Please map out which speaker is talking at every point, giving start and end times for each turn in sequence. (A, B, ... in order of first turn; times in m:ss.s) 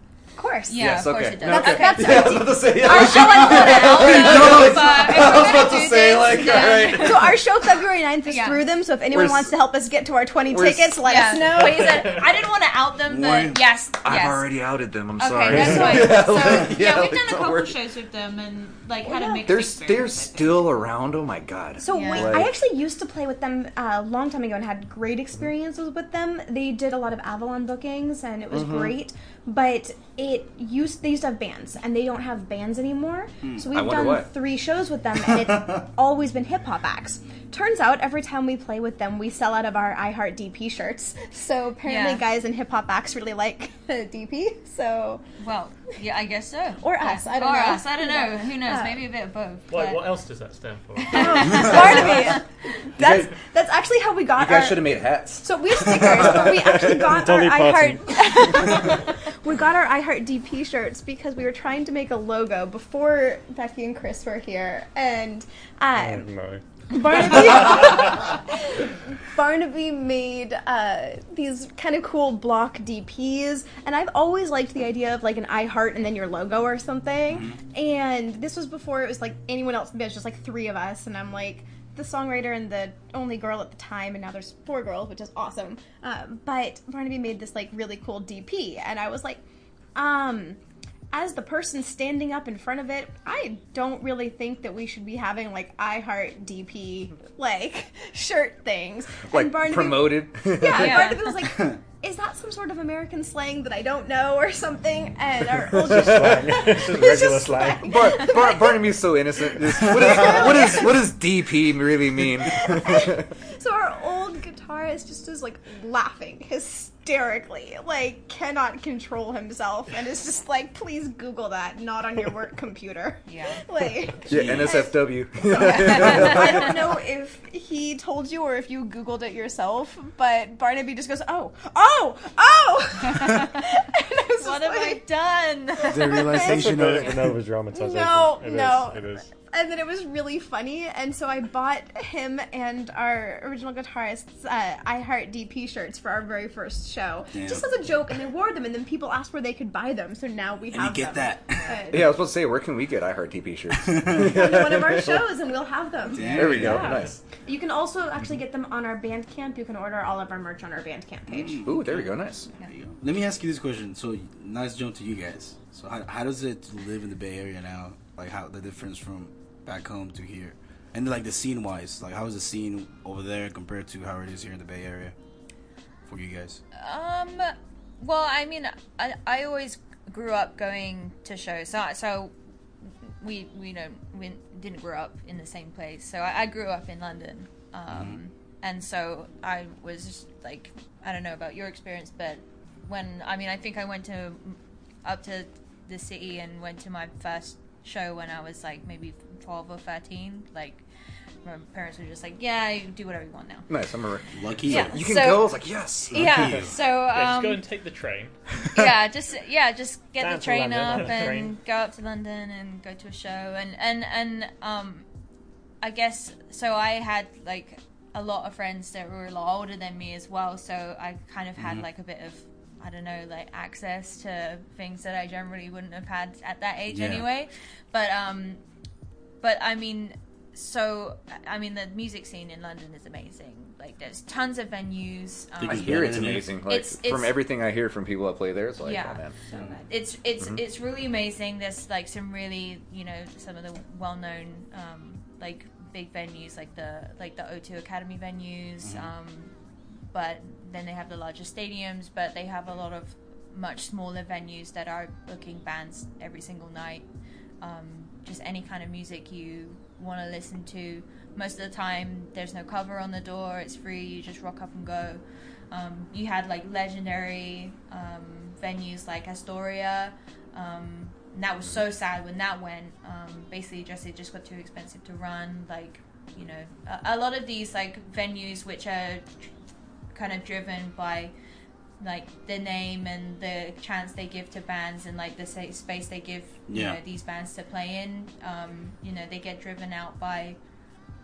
0:00.4-0:04.6 A
0:00.7-0:07.4 B
0:00.7-0:07.4 C
0:05.4-0:05.8 A
0:06.3-0:12.2 A
0:08.2-0:08.6 B
0:09.1-0:09.6 C
0:10.5-0:11.7 C
0:11.0-0:14.5 B
0:13.0-0:13.6 D
0:14.0-0:17.8 C
0:15.2-0:20.7 B
0:19.0-0:19.5 A
0:19.4-0:22.5 C
0:21.8-0:45.2 A
0:21.9-0:22.4 B
0:28.5-0:29.0 C
0:33.7-0:34.3 C
0:35.4-0:35.8 D
0:41.8-0:42.2 B
0:45.4-0:50.0 B
0:46.8-0:49.0 A
0:49.7-0:52.1 E
0:51.0-0:52.4 B
0:51.1-1:06.3 A
0:53.0-0:53.3 C
0:54.3-0:57.1 C
0:56.8-0:59.0 F
1:06.0-1:06.6 F
1:06.9-1:29.4 A
1:07.3-1:07.8 F
1:17.3-1:17.6 D
1:29.9-1:30.6 A
1:31.1-1:51.1 A
1:39.3-1:41.3 C
1:40.7-1:41.4 B
1:41.5-1:41.8 D
1:45.7-1:48.2 F
1:47.8-1:53.3 C
1:52.4-2:15.0 A
2:03.3-2:03.6 B
2:04.3-2:04.8 D
2:04.3-2:06.9 C
2:05.5-2:06.7 B
2:14.4-2:16.2 B
2:15.8-2:17.1 A
2:15.9-2:17.4 D
2:16.4-2:19.3 F
2:17.7-2:32.1 A
2:27.3-2:27.7 D
2:30.7-2:31.7 D
2:31.9-2:35.3 C
2:33.7-2:34.4 D
2:34.1-2:42.0 A
2:36.1-2:37.0 D
2:36.3-2:37.2 C
2:41.3-2:42.1 D
2:41.6-2:42.5 C
2:42.7-2:55.1 D
2:56.0-2:56.6 D
2:56.7-3:20.8 B
3:07.9-3:08.2 D
3:21.4-3:23.7 B
3:23.7-3:26.2 C
3:24.3-3:25.1 D
3:24.6-3:27.6 B
3:26.1-3:26.7 D
3:27.1-3:28.4 E
3:28.7-3:35.0 B
3:30.2-3:31.6 F
3:35.8-3:48.6 B
3:41.6-3:41.8 D
3:46.9-3:47.2 D
3:49.4-3:56.0 B
3:55.6-3:56.5 D
3:55.6-3:59.4 C
3:56.6-3:57.3 B
3:58.8-4:09.5 B
3:59.5-3:59.8 D
3:59.5-3:59.8 A
4:08.8-4:09.1 D
4:10.1-4:17.0 B
4:17.6-4:39.5 B
4:40.1-4:41.3 B
4:42.0-4:50.6 B
4:46.7-4:47.0 D